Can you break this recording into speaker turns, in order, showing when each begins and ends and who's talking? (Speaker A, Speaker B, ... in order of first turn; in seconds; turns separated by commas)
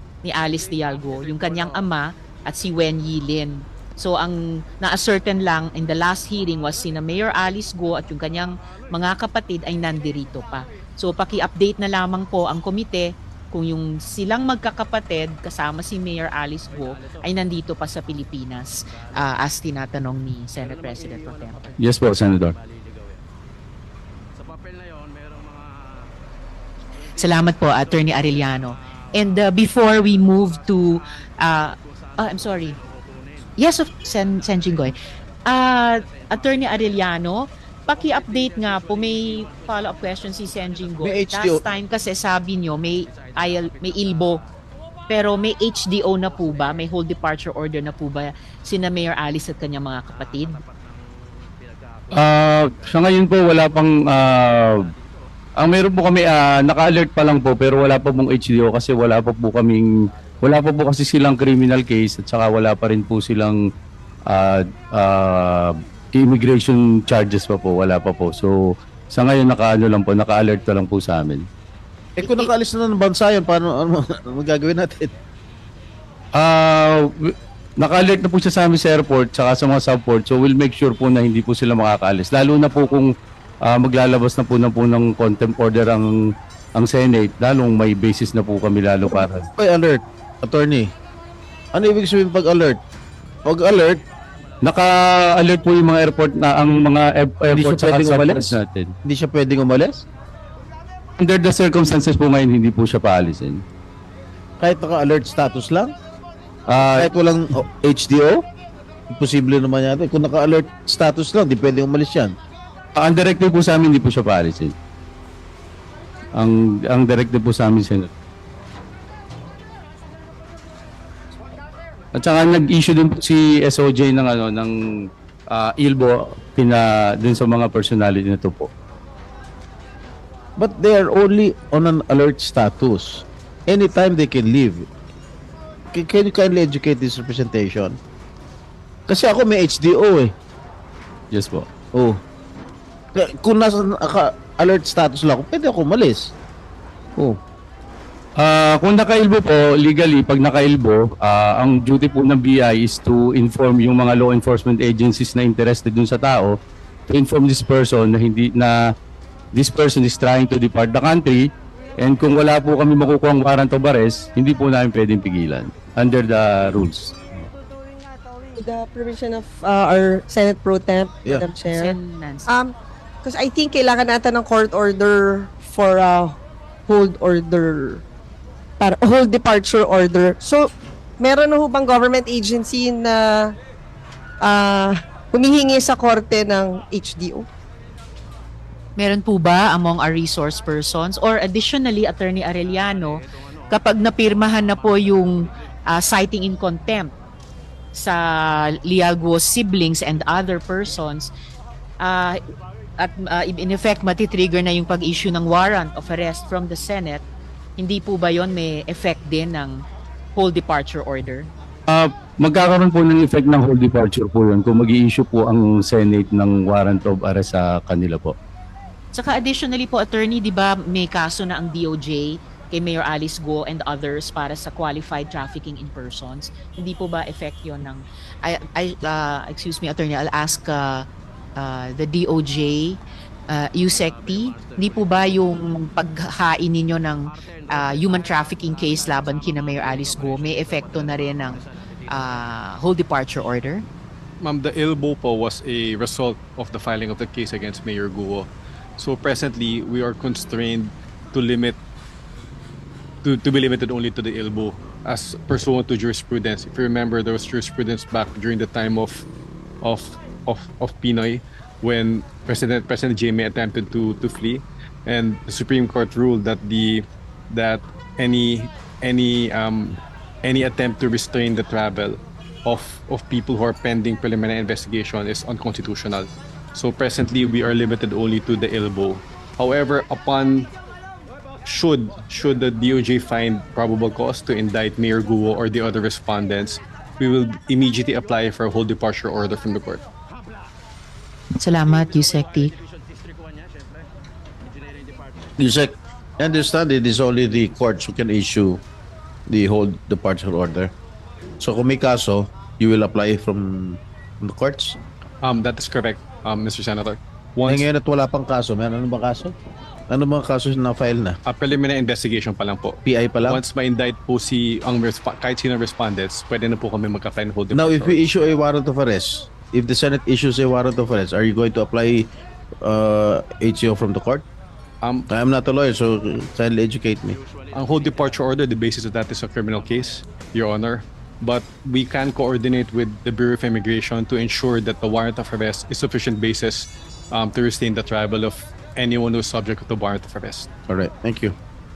Speaker A: 0.2-21.7, Speaker B: 21.8-22.6, Speaker A: 27.2-32.8, Speaker A: 33.6-34.9, Speaker A: 35.5-44.4, Speaker C: 41.0-41.6, Speaker A: 45.1-50.6, Speaker B: 52.1-54.9, Speaker B: 55.6-59.9, Speaker B: 60.4-63.6, Speaker B: 64.3-68.5, Speaker B: 69.1-71.5, Speaker C: 72.2-75.1, Speaker A: 72.2-72.5, Speaker B: 76.3-83.1, Speaker B: 83.7-86.2, Speaker B: 86.8-89.5, Speaker C: 89.5-90.9, Speaker C: 91.7-92.8, Speaker C: 93.5-94.0, Speaker B: 94.7-99.0, Speaker C: 97.5-100.0, Speaker B: 101.2-103.6, Speaker C: 104.6-105.9, Speaker B: 106.7-107.1, Speaker C: 106.8-108.4, Speaker C: 109.1-112.4, Speaker B: 113.0-114.8, Speaker B: 116.4-118.1, Speaker B: 122.2-124.8, Speaker B: 125.5-128.7, Speaker C: 130.6-134.9, Speaker C: 135.9-138.0, Speaker C: 139.1-140.3, Speaker B: 141.3-141.7, Speaker C: 141.9-142.2, Speaker C: 143.2-146.3, Speaker B: 148.4-156.6, Speaker B: 157.1-158.8, Speaker B: 159.6-161.5, Speaker B: 162.0-167.2, Speaker D: 168.6-171.9, Speaker A: 171.7-172.5, Speaker D: 172.5-176.4, Speaker D: 176.9-178.0, Speaker D: 178.8-183.4, Speaker D: 184.4-187.5, Speaker A: 189.0-193.2, Speaker A: 193.7-197.1, Speaker A: 197.9-201.3, Speaker A: 202.0-202.4, Speaker A: 203.0-207.2, Speaker A: 207.8-209.8, Speaker A: 210.4-211.5, Speaker B: 211.9-218.4, Speaker A: 219.1-231.1, Speaker A: 231.6-233.0, Speaker A: 233.5-243.8, Speaker E: 244.4-251.8, Speaker E: 253.2-259.2, Speaker E: 259.8-280.7, Speaker E: 281.6-290.0, Speaker A: 291.6-292.7, Speaker C: 295.6-298.8, Speaker C: 299.5-300.9, Speaker C: 301.6-305.0, Speaker E: 305.4-307.9, Speaker C: 307.7-309.5, Speaker C: 310.1-311.4, Speaker E: 311.4-318.3, Speaker C: 313.1-313.6, Speaker C: 317.7-322.3, Speaker C: 322.8-324.5, Speaker E: 325.0-325.3, Speaker C: 325.3-327.4, Speaker E: 327.7-340.7, Speaker C: 340.9-341.6